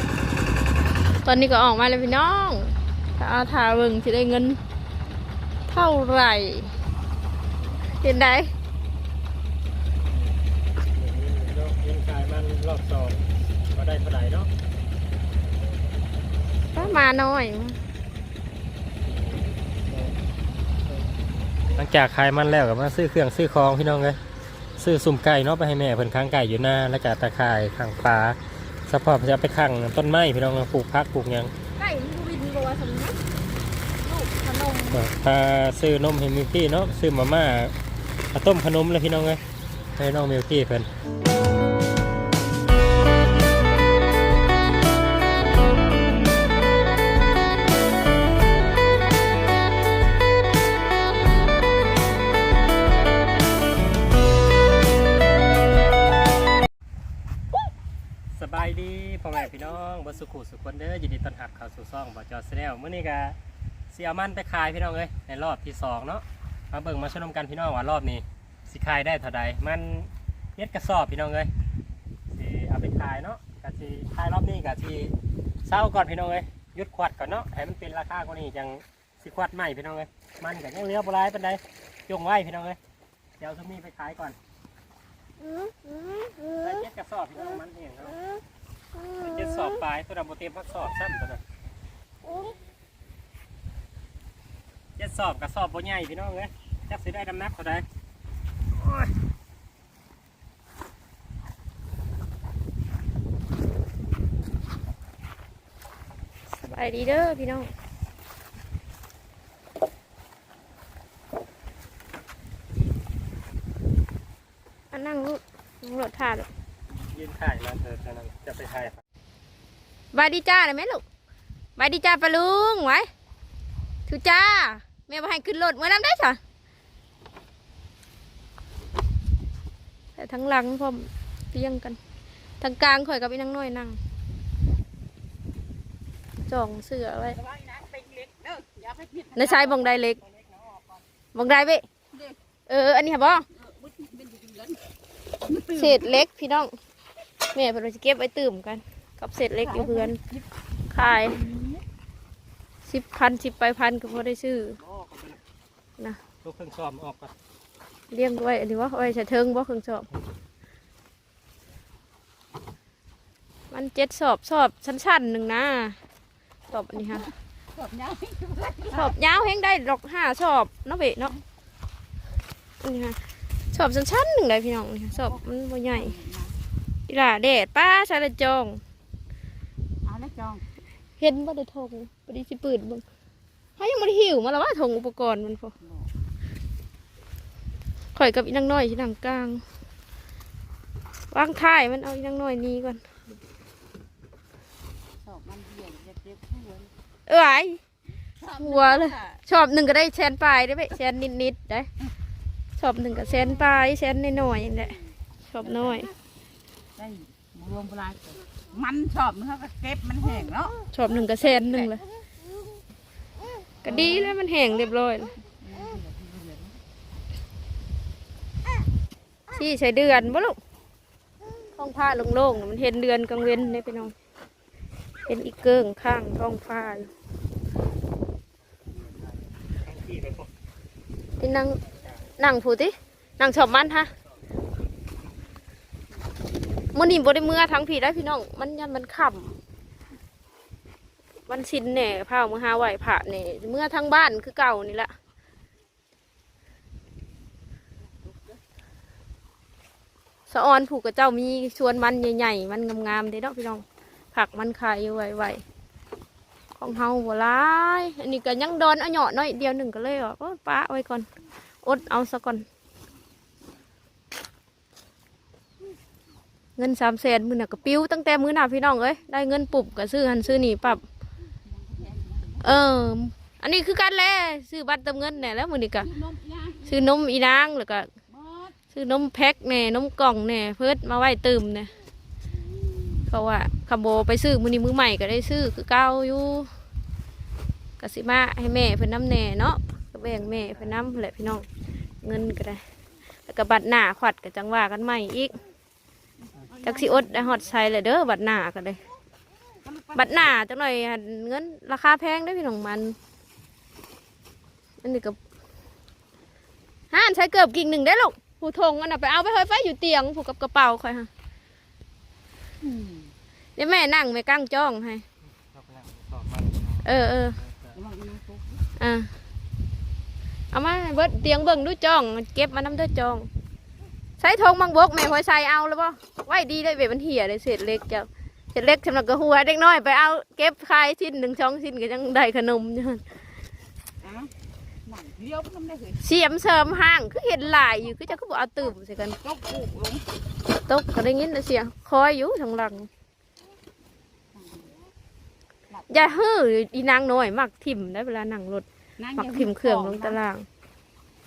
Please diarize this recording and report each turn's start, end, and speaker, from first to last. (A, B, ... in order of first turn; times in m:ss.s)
0:01.2-0:04.6 A
0:05.7-0:06.7 A
0:08.0-0:08.5 A
0:10.9-0:14.5 B
0:16.7-0:17.8 A
0:21.8-0:24.2 B
0:24.8-0:31.5 B
0:31.8-0:33.2 A
0:34.0-0:35.0 A
0:34.9-0:37.7 B
0:38.3-0:39.4 B
0:40.0-0:40.9 B
0:58.3-1:03.4 B
1:03.9-1:11.5 B
1:12.3-1:15.1 B
1:15.6-1:22.8 B
1:23.4-1:24.4 B
1:25.6-1:26.6 A
1:26.6-1:28.2 B
1:29.0-1:29.3 A
1:29.2-1:31.4 B
1:35.0-1:37.8 B
1:46.6-1:47.7 A
1:54.9-1:56.5 A
1:57.1-1:59.0 B
2:00.1-2:01.0 A
2:01.8-2:03.1 A
2:04.1-2:06.4 A
2:10.2-2:12.0 A
2:12.6-2:14.0 A
2:16.5-2:17.4 A
2:17.5-2:19.8 C
2:19.4-2:20.2 A
2:21.3-2:21.8 A
2:22.7-2:23.4 A
2:23.6-2:24.8 C
2:25.4-2:26.0 C
2:25.7-2:26.7 A
2:27.5-2:30.2 A
2:29.6-2:30.4 C
2:30.9-2:31.4 A
2:31.3-2:31.8 C
2:32.8-2:34.8 A
2:35.0-2:35.3 B
2:36.4-2:37.3 B
2:38.1-2:40.1 A
2:43.7-2:46.0 A
2:46.7-2:47.3 A
2:47.0-2:49.1 C
2:48.9-2:51.3 A
2:52.8-2:53.2 A
2:53.7-2:56.1 A
2:55.1-2:55.4 C
2:55.9-2:56.6 C
2:57.1-2:58.8 A
3:00.0-3:00.6 C
3:01.2-3:03.0 A
3:03.8-3:05.7 A
3:08.1-3:09.6 A
3:11.3-3:13.0 A
3:15.2-3:16.9 C
3:17.3-3:17.8 A
3:18.4-3:19.4 C
3:18.5-3:21.9 A
3:22.8-3:25.0 A
3:25.5-3:26.1 A
3:25.6-3:26.1 C
3:27.0-3:30.8 C
3:30.9-3:32.0 A
3:33.8-3:35.3 A
3:33.8-3:34.3 C
3:35.6-3:36.8 C
3:39.5-3:40.6 A
3:41.8-3:44.1 A
3:45.3-3:47.1 A
3:49.8-3:50.5 B
3:51.4-3:51.8 A
3:52.4-3:54.1 A
3:56.9-3:59.5 A
4:01.5-4:05.1 A
4:10.5-4:15.6 A
4:16.8-4:21.2 A
4:21.8-4:22.6 A
4:26.8-4:31.0 A
4:31.6-4:32.6 C
4:32.6-4:36.1 A
4:36.0-4:36.9 C
4:36.8-4:38.1 A
4:38.3-4:38.7 C
4:38.9-4:41.9 A
4:43.3-4:46.7 A
4:48.0-4:51.6 A
4:52.2-4:52.8 A
4:53.5-4:55.5 A
4:56.5-4:57.6 C
4:56.8-4:59.0 A
4:59.8-5:00.5 C
5:00.1-5:03.2 A
5:05.0-5:05.4 A
5:07.1-5:11.3 A
5:12.8-5:13.3 C
5:13.8-5:15.2 A
5:15.7-5:17.0 B
5:17.0-5:17.6 A
5:17.6-5:18.0 B
5:17.9-5:18.8 C
5:19.0-5:19.3 A
5:20.7-5:23.5 A
5:24.4-5:33.2 A
5:34.2-5:34.5 C
5:35.0-5:36.2 C
5:36.2-5:39.4 A
5:39.4-5:40.3 C
5:40.9-5:43.1 A
5:44.5-5:44.9 C
5:45.9-5:46.2 C
5:46.1-5:50.6 A
5:49.2-5:50.4 C